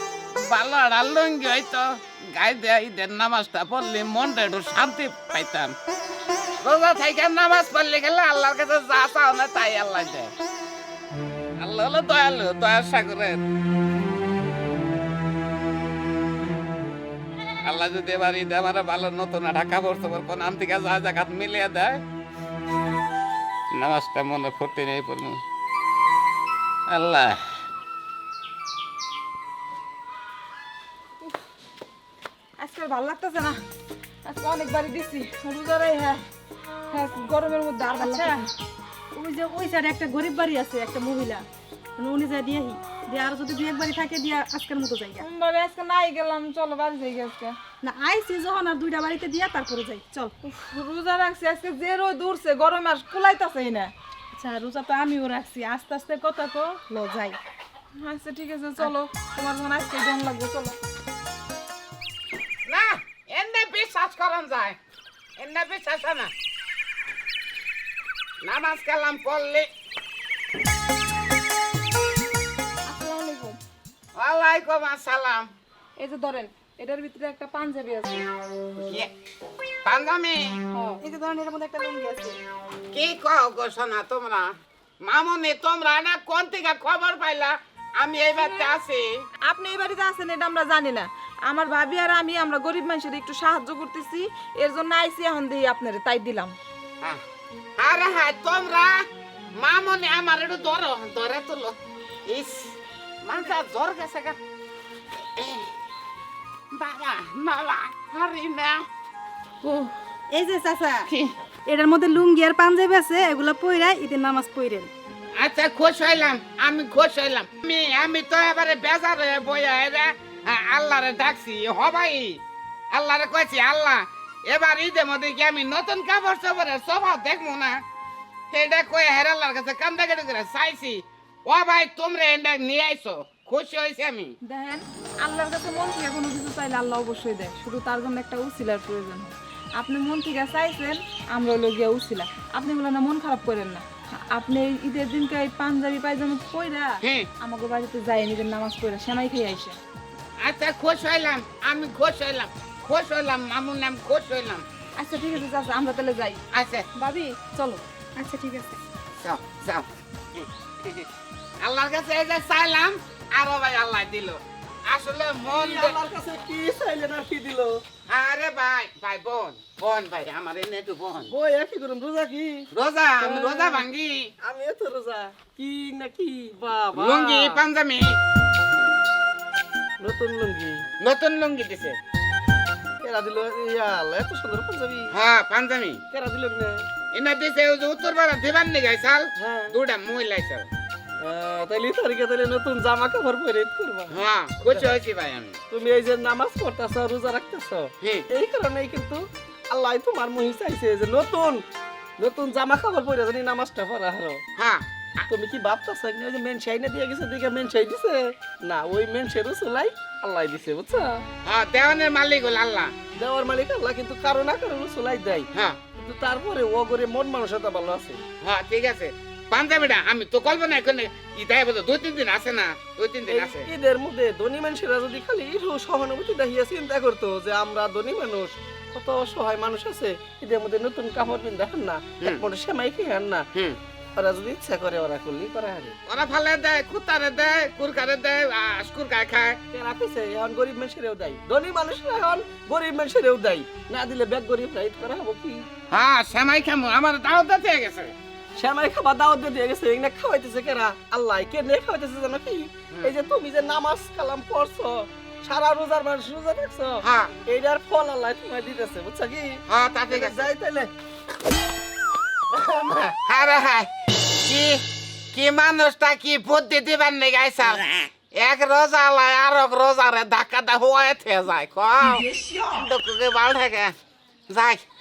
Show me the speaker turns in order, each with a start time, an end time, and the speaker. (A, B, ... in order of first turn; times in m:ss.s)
0:00.3-0:05.7 A
0:06.6-0:10.3 A
0:11.6-0:13.4 A
0:17.6-0:22.0 A
0:23.7-0:25.4 A
0:26.9-0:27.4 A
0:32.6-0:33.6 B
0:34.2-0:36.2 B
0:36.9-0:38.5 B
0:37.9-0:38.4 C
0:39.1-0:41.4 C
0:42.0-0:45.2 C
0:45.2-0:47.6 B
0:47.8-0:50.3 C
0:50.4-0:53.9 B
0:54.3-0:57.4 C
0:57.9-1:00.8 B
1:02.6-1:04.8 A
1:05.4-1:06.3 A
1:08.4-1:09.7 A
1:12.8-1:13.6 B
1:14.1-1:15.5 A
1:16.0-1:18.3 B
1:19.8-1:20.6 A
1:20.8-1:22.4 C
1:22.9-1:29.2 A
1:29.4-1:36.6 B
1:37.8-1:44.4 A
1:45.4-1:45.7 A
1:46.7-1:48.8 A
1:49.6-1:49.9 B
1:50.3-1:51.1 C
1:51.1-1:51.3 A
1:51.6-1:54.9 C
1:55.4-2:07.8 A
2:08.5-2:14.4 A
2:14.4-2:29.8 B
2:27.0-2:27.3 A
2:30.4-2:34.6 A
2:35.0-2:36.4 B
2:36.5-2:36.9 A
2:36.9-2:37.8 B
2:38.2-2:38.8 C
2:39.2-2:39.9 A
2:40.4-2:41.0 A
2:41.6-2:46.0 A
2:45.4-2:47.8 D
2:48.1-2:51.3 A
2:51.3-2:52.7 D
2:52.7-2:54.3 A
2:53.2-2:53.9 D
2:54.4-2:57.6 D
2:56.9-2:58.2 A
3:00.0-3:00.8 D
3:01.0-3:02.0 A
3:03.0-3:05.1 D
3:05.1-3:06.0 A
3:06.1-3:06.8 D
3:07.1-3:10.7 A
3:09.4-3:09.8 D
3:11.2-3:14.9 D
3:14.1-3:15.6 A
3:15.7-3:21.6 D
3:22.2-3:24.4 D
3:24.6-3:25.3 A
3:25.3-3:31.2 D
3:31.4-3:32.9 A
3:33.2-3:38.2 D
3:38.4-3:43.7 A
3:43.2-3:53.4 D
3:54.2-3:55.9 D
3:56.1-3:59.6 A
3:59.7-4:05.6 D
4:05.9-4:08.1 A
4:08.6-4:20.9 D
4:17.0-4:17.3 A
4:19.7-4:20.5 A
4:22.5-4:23.9 A
4:24.4-4:33.9 A
4:34.5-4:34.8 A